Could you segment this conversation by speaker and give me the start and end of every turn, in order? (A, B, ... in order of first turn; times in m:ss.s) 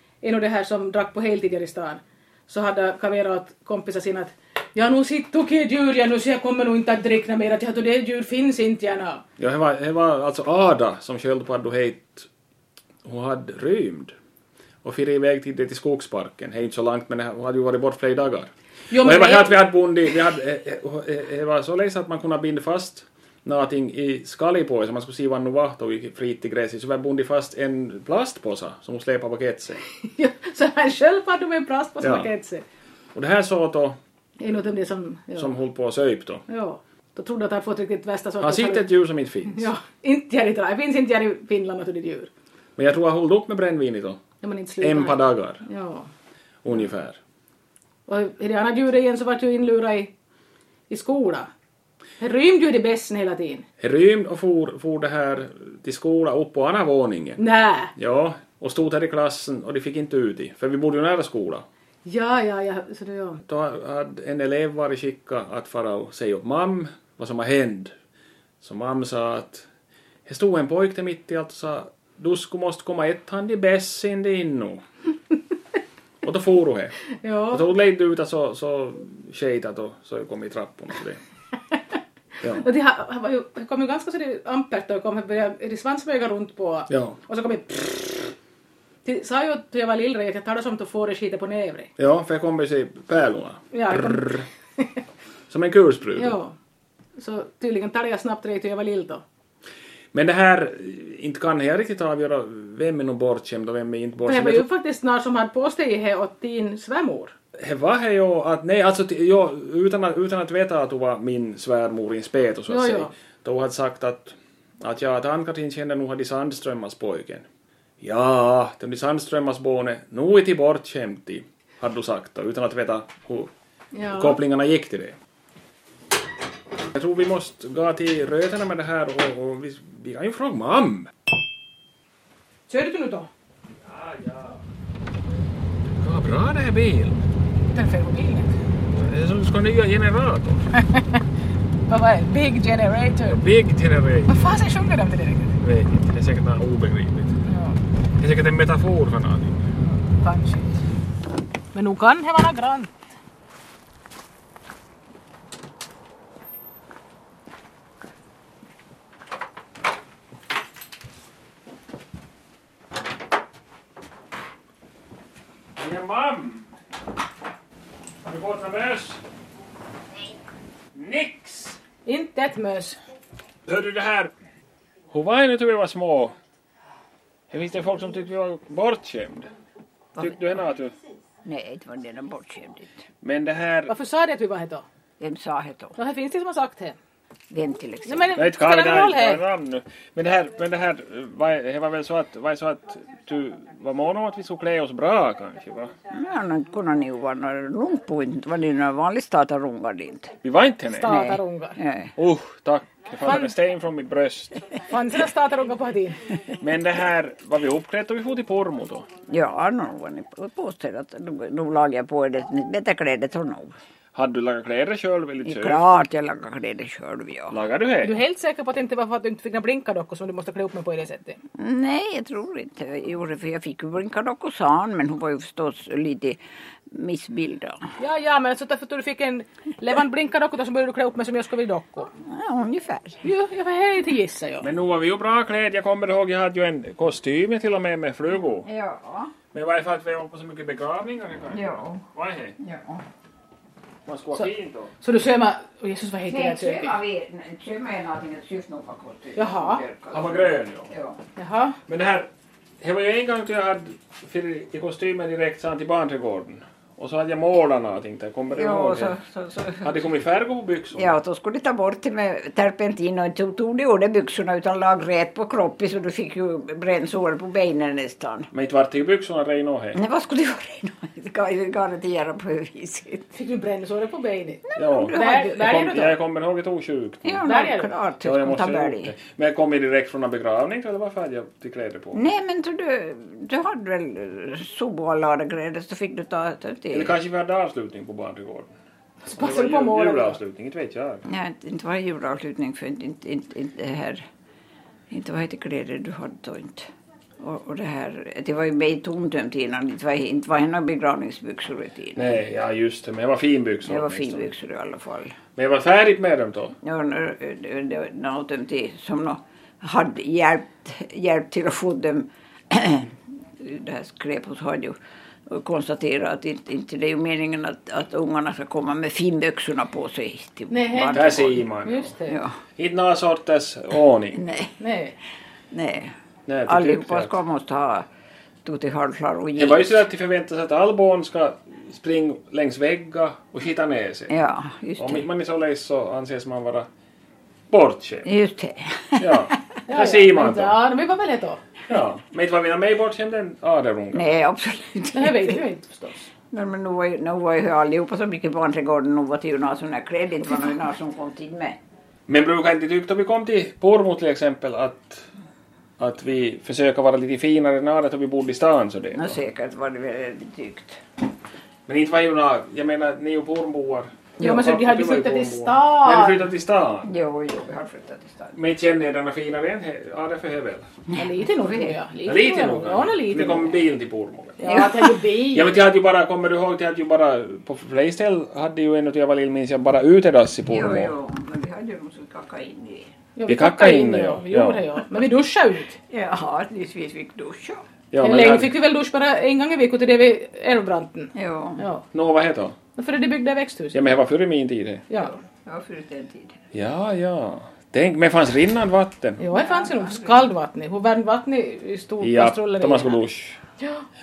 0:00.2-0:09.2 A
0:09.4-0:12.3 B
0:13.0-0:14.1 B
0:14.8-0:29.8 B
0:18.9-0:19.6 A
0:29.9-0:32.6 A
0:32.0-0:32.3 B
0:33.1-0:34.0 B
0:34.4-0:35.5 A
0:35.4-0:36.4 B
0:36.5-0:38.9 A
0:38.4-0:39.7 B
0:39.4-0:42.3 A
0:42.8-0:44.2 B
0:44.4-0:46.1 A
0:44.8-0:45.6 B
0:46.6-0:47.2 B
0:48.1-0:50.1 A
0:50.9-0:51.5 A
0:52.2-0:53.7 A
0:53.8-0:57.4 B
0:57.4-0:57.9 A
0:58.0-1:01.6 B
1:02.0-1:03.4 A
1:03.4-1:07.9 B
1:08.6-1:09.7 B
1:10.2-1:14.8 B
1:16.2-1:17.0 B
1:17.2-1:17.6 A
1:17.5-1:21.2 B
1:22.4-1:28.3 A
1:26.9-1:27.2 B
1:29.0-1:31.9 A
1:32.0-1:34.4 B
1:33.7-1:34.8 A
1:35.5-1:36.4 B
1:36.2-1:36.6 A
1:37.2-1:39.2 A
1:40.1-1:44.6 B
1:44.2-1:47.3 A
1:47.6-1:57.4 B
1:52.7-1:53.1 A
1:58.0-2:03.5 B
2:03.9-2:04.4 A
2:04.1-2:05.2 B
2:06.9-2:11.1 B
2:12.7-2:13.3 A
2:13.8-2:14.6 B
2:15.9-2:17.2 B
2:17.7-2:18.6 A
2:18.9-2:20.7 B
2:20.7-2:21.2 A
2:21.9-2:23.4 A
2:23.2-2:24.4 B
2:24.3-2:25.6 A
2:25.6-2:27.4 B
2:27.4-2:27.8 A
2:28.2-2:29.7 B
2:30.2-2:30.8 A
2:31.7-2:32.9 A
2:45.8-2:46.7 B
2:48.2-2:49.2 B
2:50.9-2:51.8 B
2:52.0-2:53.0 A
2:53.7-2:54.3 B
2:55.1-2:56.3 B
2:57.5-2:59.5 B
3:00.2-3:00.9 B
3:01.4-3:03.0 C
3:03.2-3:03.9 B
3:03.9-3:04.8 A
3:05.2-3:05.9 C
3:06.0-3:07.0 A
3:07.5-3:08.4 C
3:08.0-3:09.4 A
3:08.3-3:15.9 B
3:16.1-3:20.4 C
3:20.4-3:21.2 B
3:20.9-3:21.8 A
3:21.1-3:22.1 C
3:22.2-3:24.6 B
3:23.2-3:23.5 A
3:24.9-3:26.2 A
3:26.6-3:29.1 B
3:29.3-3:33.7 C
3:34.1-3:35.8 B
3:35.4-3:37.6 C
3:37.5-3:38.1 B
3:38.0-3:41.4 A
3:41.5-3:46.4 C
3:46.9-3:47.9 C
3:48.0-3:52.1 A
3:52.2-3:53.2 C
3:53.2-3:54.7 A
3:54.6-3:58.7 B
3:58.6-3:59.3 C
3:59.5-4:02.6 B
4:01.5-4:02.0 C
4:02.6-4:03.0 C
4:04.0-4:04.9 B
4:05.0-4:07.0 A
4:06.3-4:11.2 C
4:09.4-4:09.8 A
4:10.1-4:10.9 B
4:11.4-4:11.8 A
4:11.9-4:12.3 B
4:12.8-4:19.2 B
4:18.5-4:20.0 C
4:19.8-4:21.1 B
4:20.9-4:28.5 C
4:28.5-4:30.0 B
4:29.9-4:33.3 C
4:33.3-4:36.1 A
4:34.7-4:35.7 C
4:34.8-4:37.5 B
4:37.2-4:39.1 C
4:37.4-4:37.9 A
4:38.2-4:42.2 B
4:42.1-4:47.1 C
4:46.9-4:48.7 B
4:49.2-4:50.4 A
4:49.3-4:51.2 B
4:51.3-4:54.2 C
4:55.1-5:02.2 C
5:02.1-5:04.5 B
5:03.8-5:05.4 C
5:05.6-5:06.8 B
5:06.8-5:15.0 C
5:15.5-5:21.6 C
5:20.7-5:22.4 A
5:21.1-5:22.1 B
5:22.3-5:22.6 C
5:22.8-5:24.4 B
5:24.4-5:24.7 C
5:24.8-5:25.2 A
5:25.7-5:26.1 C
5:26.5-5:27.4 B
5:26.6-5:28.0 C
5:28.6-5:30.0 C
5:29.6-5:34.3 B
5:34.3-5:35.2 C
5:35.0-5:36.9 B
5:37.7-5:38.3 B
5:38.2-5:39.6 C
5:39.2-5:40.8 B
5:39.9-5:41.6 A
5:41.9-5:44.3 B
5:44.1-5:45.6 C
5:45.1-5:46.3 A
5:46.5-5:51.8 C
5:52.3-5:55.3 B
5:56.0-5:59.4 B
5:59.1-6:01.0 C
6:01.9-6:07.1 B
6:04.4-6:06.5 A
6:07.0-6:08.6 C
6:08.5-6:10.9 B
6:11.1-6:11.9 C
6:11.1-6:13.8 A
6:12.2-6:14.6 B
6:14.6-6:15.8 A
6:14.6-6:15.2 C
6:15.5-6:21.1 B
6:20.7-6:23.1 C
6:23.4-6:26.0 A
6:23.5-6:24.8 B
6:26.1-6:27.8 C
6:28.1-6:28.7 B
6:28.2-6:32.0 A
6:31.3-6:31.8 C
6:32.1-6:32.8 B
6:33.0-6:34.1 A
6:33.9-6:35.0 B
6:35.1-6:35.3 A
6:35.4-6:36.6 C
6:36.7-6:39.4 B
6:39.4-6:43.2 A
6:39.5-6:40.5 C
6:42.2-6:43.6 B